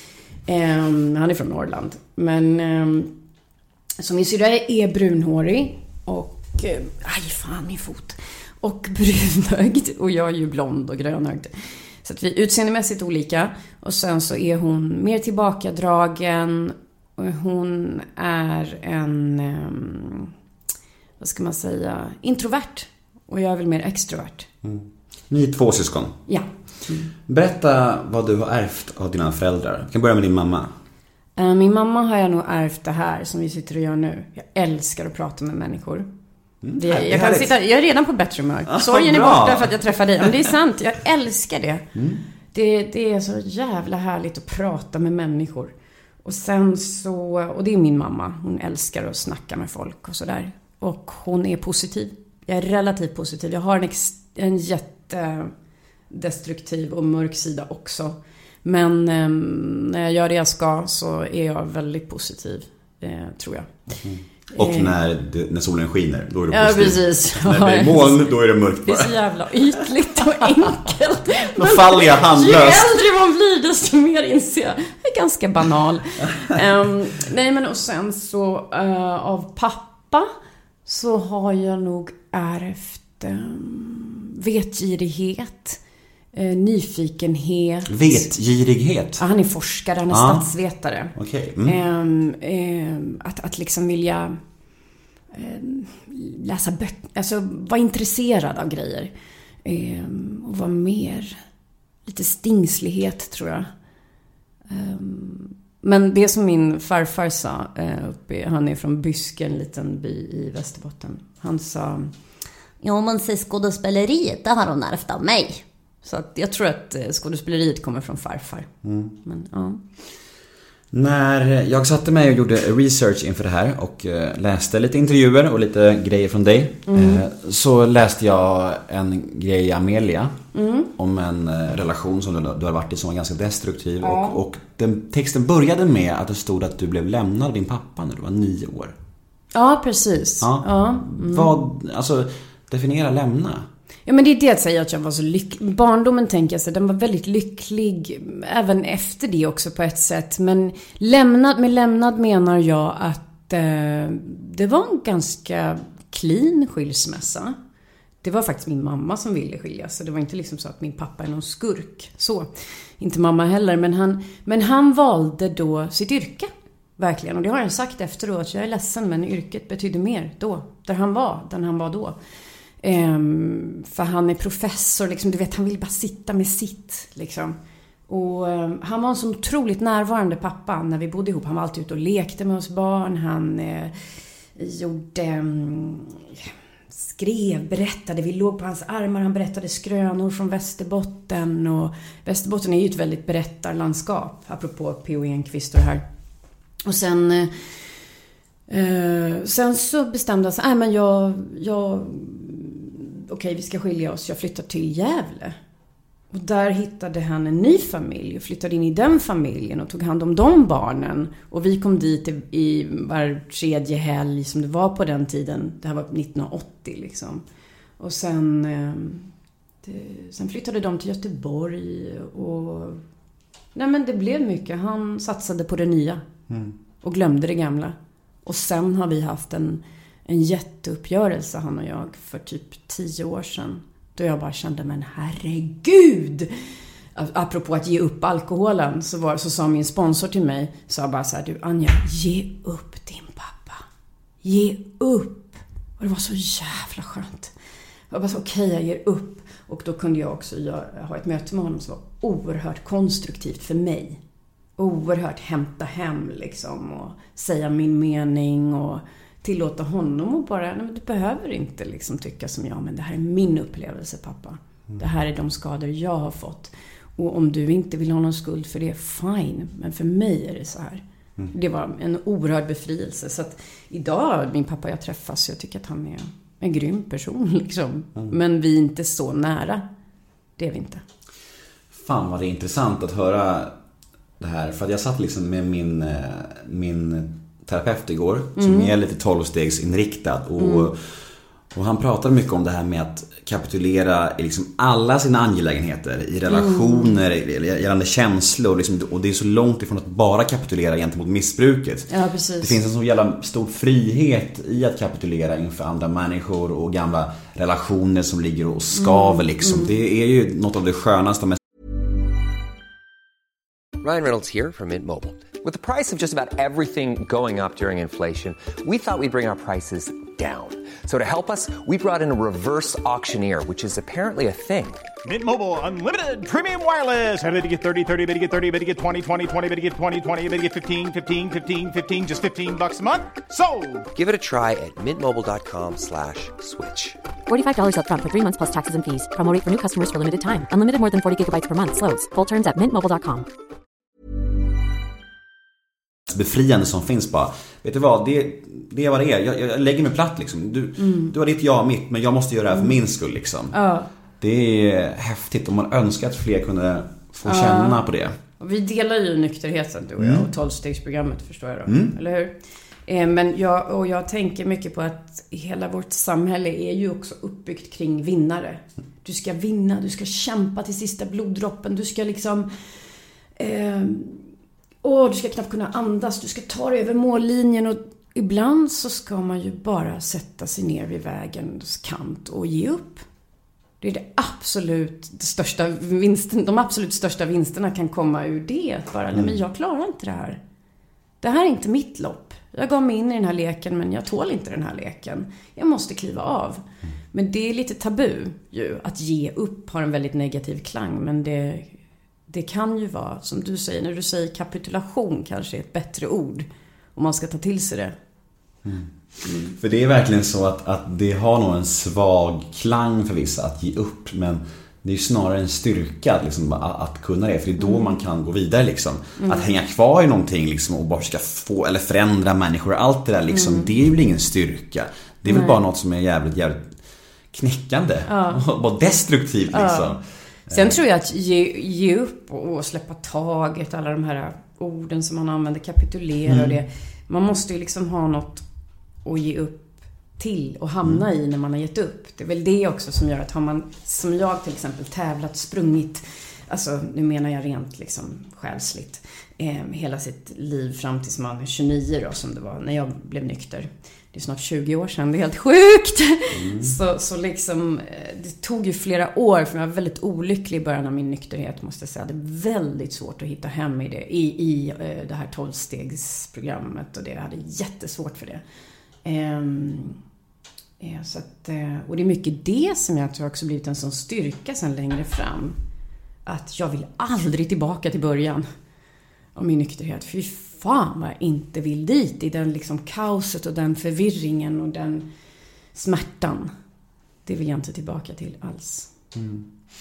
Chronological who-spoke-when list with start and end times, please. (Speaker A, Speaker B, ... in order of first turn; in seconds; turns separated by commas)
Speaker A: 0.5-3.1, Speaker A: 4.0-11.5, Speaker A: 12.0-20.3, Speaker A: 21.2-24.5, Speaker B: 24.6-26.2, Speaker A: 26.3-27.1, Speaker B: 27.2-30.7, Speaker A: 31.4-36.1, Speaker B: 36.6-37.5, Speaker A: 36.8-41.9, Speaker B: 38.7-39.7, Speaker B: 41.9-42.2, Speaker A: 42.5-55.5, Speaker A: 56.1-63.7, Speaker B: 64.0-69.2, Speaker A: 64.5-64.9, Speaker A: 66.5-80.3, Speaker B: 71.5-72.9, Speaker A: 80.8-85.8, Speaker A: 86.3-88.3, Speaker B: 87.9-89.2, Speaker A: 89.2-94.4, Speaker B: 90.1-90.5, Speaker B: 91.1-91.8, Speaker A: 95.3-99.1, Speaker A: 99.6-101.4, Speaker A: 102.0-103.7, Speaker A: 104.7-112.1, Speaker A: 112.8-118.7, Speaker B: 118.8-119.1, Speaker A: 119.2-119.8, Speaker B: 120.9-130.4, Speaker A: 126.9-127.2, Speaker A: 130.5-130.9, Speaker B: 130.9-138.9, Speaker A: 134.0-134.4, Speaker A: 139.5-141.5, Speaker B: 140.4-143.7, Speaker A: 144.1-157.6, Speaker A: 158.2-172.2, Speaker A: 172.8-177.6, Speaker A: 178.1-183.9, Speaker A: 184.6-196.0, Speaker A: 196.8-197.7, Speaker A: 198.7-205.6, Speaker A: 206.3-217.4, Speaker A: 218.0-219.3, Speaker A: 219.8-223.0, Speaker A: 223.7-226.2, Speaker A: 227.0-236.5, Speaker A: 237.1-243.8, Speaker A: 244.4-247.5, Speaker A: 248.1-254.2, Speaker A: 254.8-279.8, Speaker A: 280.6-281.0, Speaker B: 281.9-283.7, Speaker B: 284.4-291.0, Speaker A: 288.6-288.9, Speaker A: 290.6-290.9, Speaker B: 291.7-311.6, Speaker A: 296.5-297.2, Speaker A: 302.1-302.8, Speaker A: 309.0-309.9, Speaker C: 314.0-325.0, Speaker D: 325.2-334.1, Speaker C: 334.1-337.2, Speaker E: 337.5-343.5, Speaker B: 346.3-353.8, Speaker A: 351.0-351.3, Speaker A: 353.7-354.1, Speaker B: 354.4-358.4, Speaker A: 357.4-358.0, Speaker A: 358.6-372.7, Speaker B: 360.2-360.5, Speaker B: 361.9-362.1, Speaker A: 373.6-374.4, Speaker A: 375.0-383.2, Speaker A: 384.0-390.6, Speaker A: 391.4-401.9, Speaker A: 402.5-408.1, Speaker B: 408.8-409.1, Speaker A: 409.4-409.7, Speaker B: 409.6-426.9, Speaker A: 417.8-418.2, Speaker A: 419.4-419.7, Speaker A: 423.5-423.9, Speaker A: 425.5-425.8, Speaker B: 427.5-431.0, Speaker A: 428.3-428.6, Speaker A: 429.7-430.2, Speaker A: 430.7-438.6, Speaker B: 436.4-436.8, Speaker A: 439.2-468.6, Speaker B: 456.5-456.9, Speaker A: 469.2-470.2, Speaker A: 471.0-475.8, Speaker A: 476.4-478.6, Speaker A: 479.5-485.3, Speaker A: 485.9-486.7, Speaker A: 487.4-489.1, Speaker B: 489.3-489.7